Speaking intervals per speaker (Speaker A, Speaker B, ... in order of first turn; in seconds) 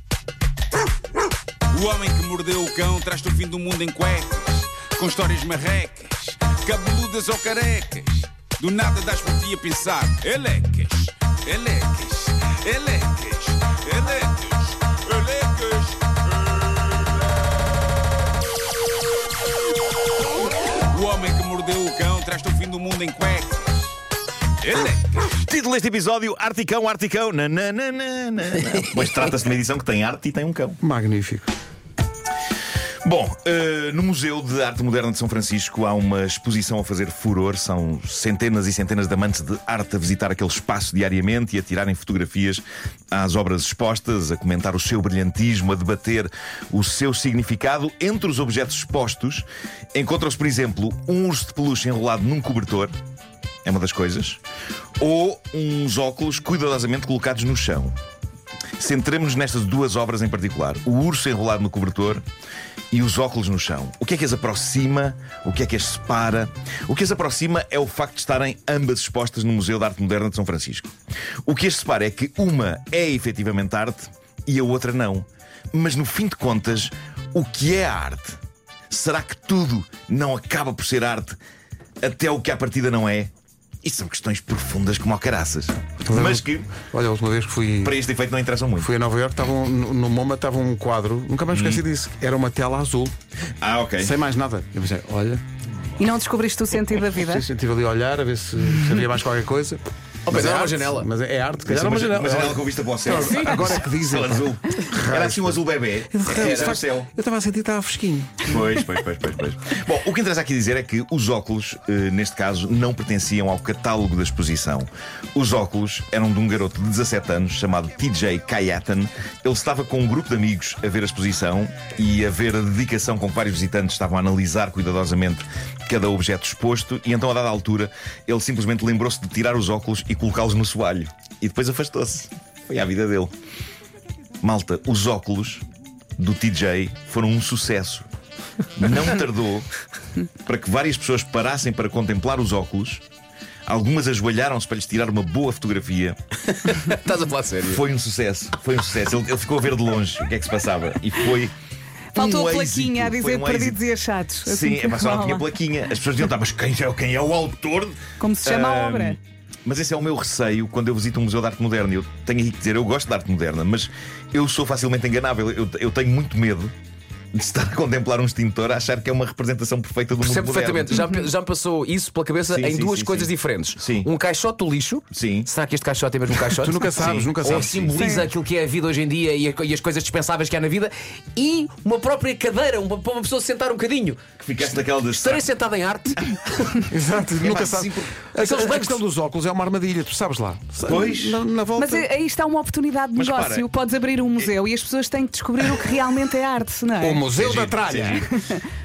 Speaker A: 1.7-17.0, 20.9-23.9, 24.6-25.3
Speaker B: 25.3-30.8, 33.0-52.9, 53.6-54.4, 55.0-57.9, 58.8-62.2, 62.9-70.9, 71.4-78.4, 78.9-81.4, 82.0-83.3, 83.8-86.7, 87.8-88.9, 91.5-91.8, 93.6-94.2, 101.7-107.1, 108.4-133.3, 134.4-135.6, 136.2-138.1, 138.8-139.7, 140.4-143.0, 143.7-146.2, 147.6-151.5, 152.1-153.8, 154.4-166.7, 167.3-171.0, 172.5-174.1, 175.1-175.5, 177.0-177.9, 184.4-185.5, 187.4-188.1, 190.8-191.4, 193.1-193.7, 197.3-198.3
Speaker C: 30.8-31.5, 86.0-87.9, 88.8-93.1, 94.0-95.4, 97.2-108.5, 176.6-177.9, 186.9-192.1, 197.0-198.3
Speaker D: 96.0-97.4, 152.1-155.5, 158.2-159.2, 177.9-178.3, 191.8-197.3
Speaker E: 100.2-101.1, 106.3-106.8, 146.5-147.8, 170.2-186.8, 188.3-189.0